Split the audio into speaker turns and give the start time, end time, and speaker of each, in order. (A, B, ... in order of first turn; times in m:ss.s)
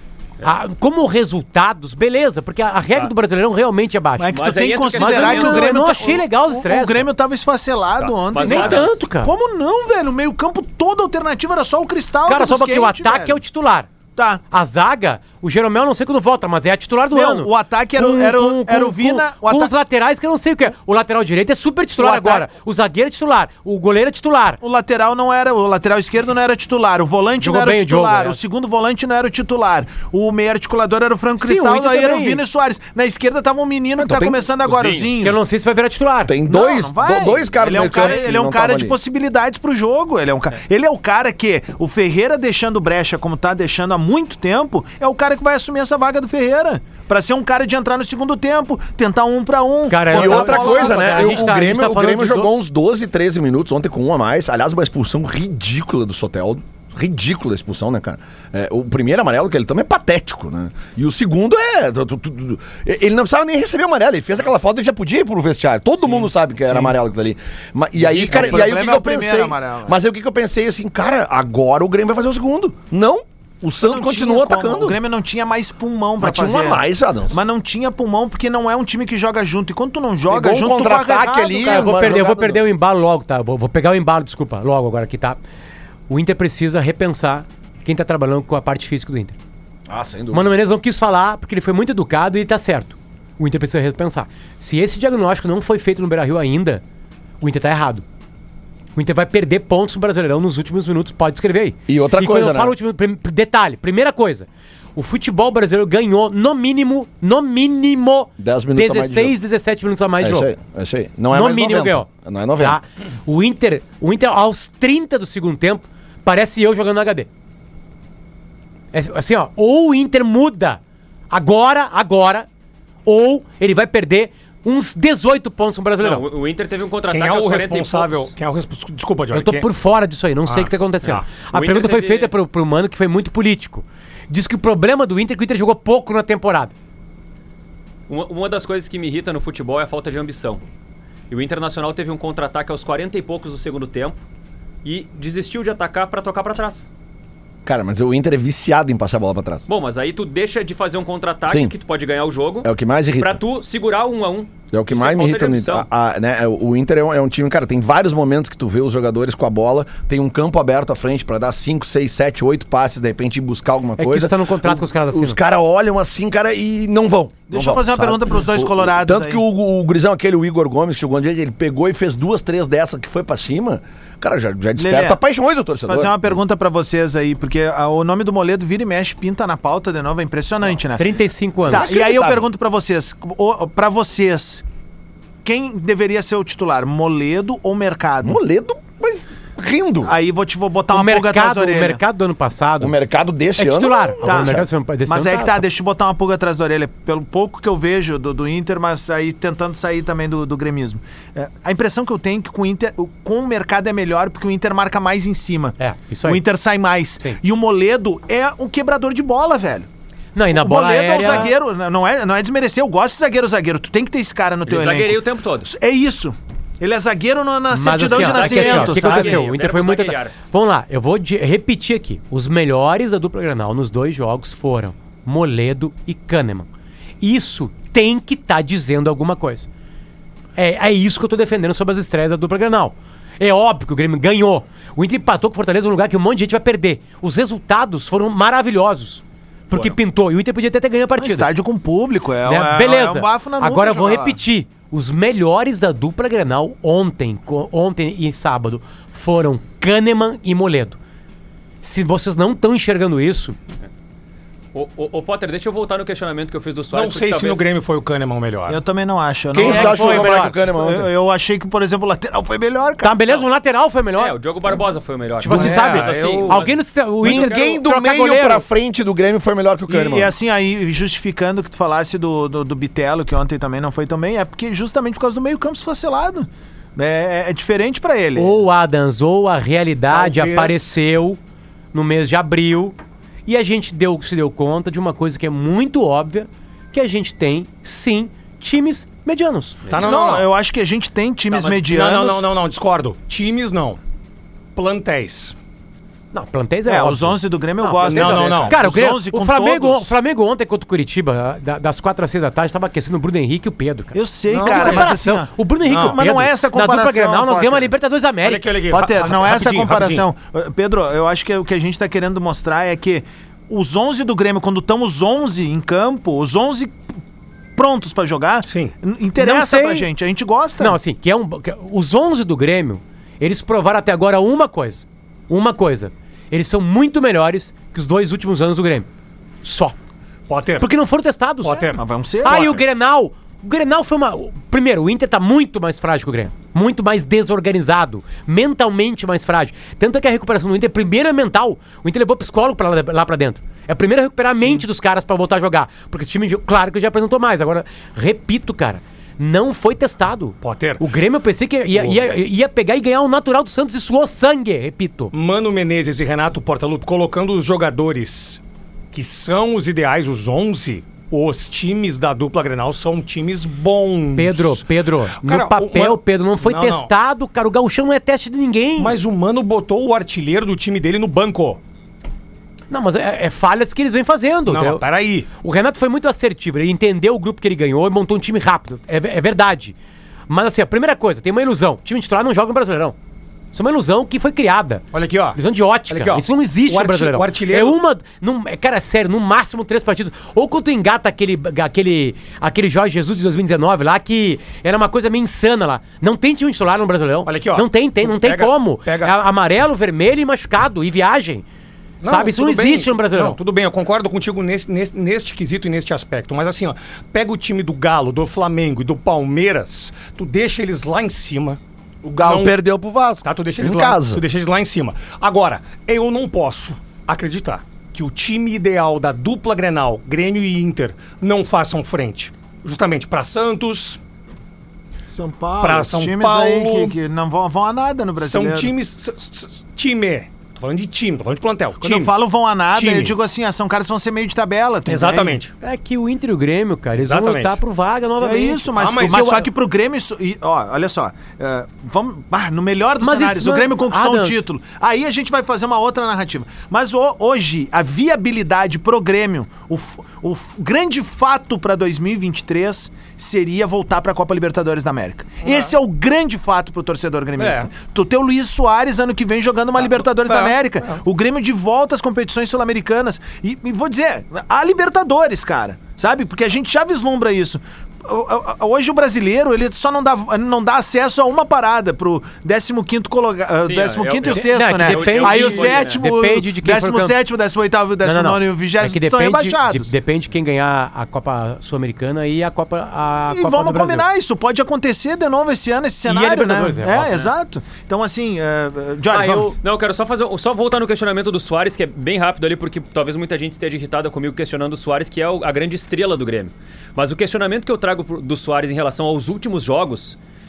0:00.4-0:04.4 A
0:04.2-0:13.4 B
0:04.3-0:05.7 C
0:04.9-0:07.1 A
0:08.0-0:09.0 C
0:08.4-0:09.3 A
0:12.3-0:13.9 A
0:14.2-0:14.4 B
0:14.5-0:24.6 A
0:17.1-0:19.7 B
0:22.0-0:22.5 B
0:24.6-0:35.4 B
0:27.4-0:28.4 A
0:31.4-0:32.4 A
0:34.0-0:34.4 D
0:34.6-0:35.1 C
0:35.2-0:36.3 A
0:36.3-0:39.0 D
0:36.5-0:51.5 B
0:49.9-0:52.5 A
0:50.1-1:15.0 D
1:08.0-1:10.0 B
1:13.8-1:22.1 B
1:16.2-1:17.4 D
1:20.3-1:22.6 D
1:21.6-1:25.4 A
1:26.1-1:29.4 A
1:29.9-1:30.5 D
1:30.3-1:36.8 A
1:37.4-1:38.0 A
1:39.0-1:50.5 A
1:41.9-1:42.8 D
1:48.4-1:49.4 D
1:50.2-1:52.8 D
1:51.3-1:57.3 A
1:58.9-2:00.8 A
2:01.3-2:02.5 A
2:03.0-2:06.2 A
2:06.0-2:08.3 C
2:07.1-2:09.7 E
2:09.3-2:16.7 A
2:10.5-2:11.3 E
2:11.5-2:12.3 C
2:18.1-2:20.6 C
2:21.3-2:24.2 C
2:24.8-2:26.9 C
2:27.6-2:29.7 D
2:29.7-2:35.9 C
2:31.5-2:31.7 D
2:32.6-2:33.4 D
2:34.7-2:56.4 D
2:44.0-2:45.4 A
2:47.5-2:49.4 B
2:54.8-2:55.2 B
2:55.9-3:01.1 B
3:01.0-3:02.0 A
3:01.7-3:04.6 B
3:01.7-3:02.4 D
3:05.4-3:08.4 B
3:08.2-3:10.1 D
3:10.0-3:12.0 B
3:10.9-3:13.0 A
3:12.8-3:14.6 D
3:13.6-3:15.6 A
3:14.2-3:29.9 B
3:25.8-3:26.4 A
3:30.4-3:31.5 A
3:30.5-3:39.4 B
3:34.7-3:35.7 C
3:37.7-3:46.7 A
3:38.1-3:40.3 C
3:47.2-3:49.7 A
3:50.6-4:01.5 A
4:01.2-4:04.4 B
4:02.4-4:11.0 A
4:11.8-4:13.6 A
4:14.7-4:17.7 C
4:16.9-4:18.8 E
4:18.7-4:23.2 B
4:19.5-4:21.1 D
4:19.6-4:20.6 A
4:23.0-4:24.4 A
4:24.2-4:27.8 C
4:25.4-4:28.6 A
4:25.4-4:26.7 E
4:27.2-4:30.3 D
4:29.9-4:38.6 B
4:38.4-4:41.4 A
4:40.1-4:41.0 E
4:41.9-4:49.9 A
4:49.9-4:50.1 C
4:49.9-4:50.5 E
4:50.0-4:52.5 B
4:51.7-4:54.0 E
4:54.8-4:55.6 E
4:56.3-5:08.7 A
4:56.9-5:00.2 B
4:58.0-4:58.8 E
5:04.1-5:07.9 B
5:04.5-5:05.2 E
5:05.9-5:06.2 E
5:08.4-5:10.3 E
5:08.9-5:17.0 B
5:17.8-5:21.0 B
5:18.7-5:18.9 E
5:19.4-5:20.1 A
5:20.8-5:29.1 A
5:29.6-5:30.0 A
5:30.5-5:30.9 E
5:30.8-5:31.9 A
5:31.6-5:32.7 E
5:32.0-5:32.8 B
5:32.4-5:55.3 A
5:44.5-5:44.8 E
5:50.6-5:51.0 E
5:51.9-5:52.3 E
5:55.3-5:58.6 E
5:59.1-6:07.1 E
6:04.4-6:09.2 A
6:09.0-6:11.8 E
6:12.9-6:15.0 A
6:14.7-6:15.5 E
6:15.6-6:20.0 A
6:20.5-6:23.2 A
6:23.7-6:41.6 A
6:25.1-6:28.0 E
6:37.4-6:39.3 E
6:42.2-6:51.8 E
6:42.2-6:43.6 A
6:52.2-6:54.4 D
6:52.4-6:52.8 E
6:53.4-7:04.2 E
7:05.3-7:08.9 B
7:05.8-7:07.2 E
7:08.4-7:12.3 E
7:12.0-7:15.6 B
7:12.9-7:13.4 E
7:15.1-7:15.7 E
7:15.8-7:19.6 A
7:17.2-7:17.8 E
7:18.4-8:00.1 B
7:19.0-7:19.7 E
7:23.2-7:24.6 A
7:35.6-7:36.0 E
7:37.6-7:37.9 E
7:40.0-7:41.2 E
7:53.8-7:56.2 C
7:54.5-7:57.4 A
7:58.2-8:04.2 A
8:03.5-8:09.7 B
8:06.2-8:07.3 A
8:07.3-8:07.5 C
8:09.3-8:09.8 A
8:09.7-8:20.4 C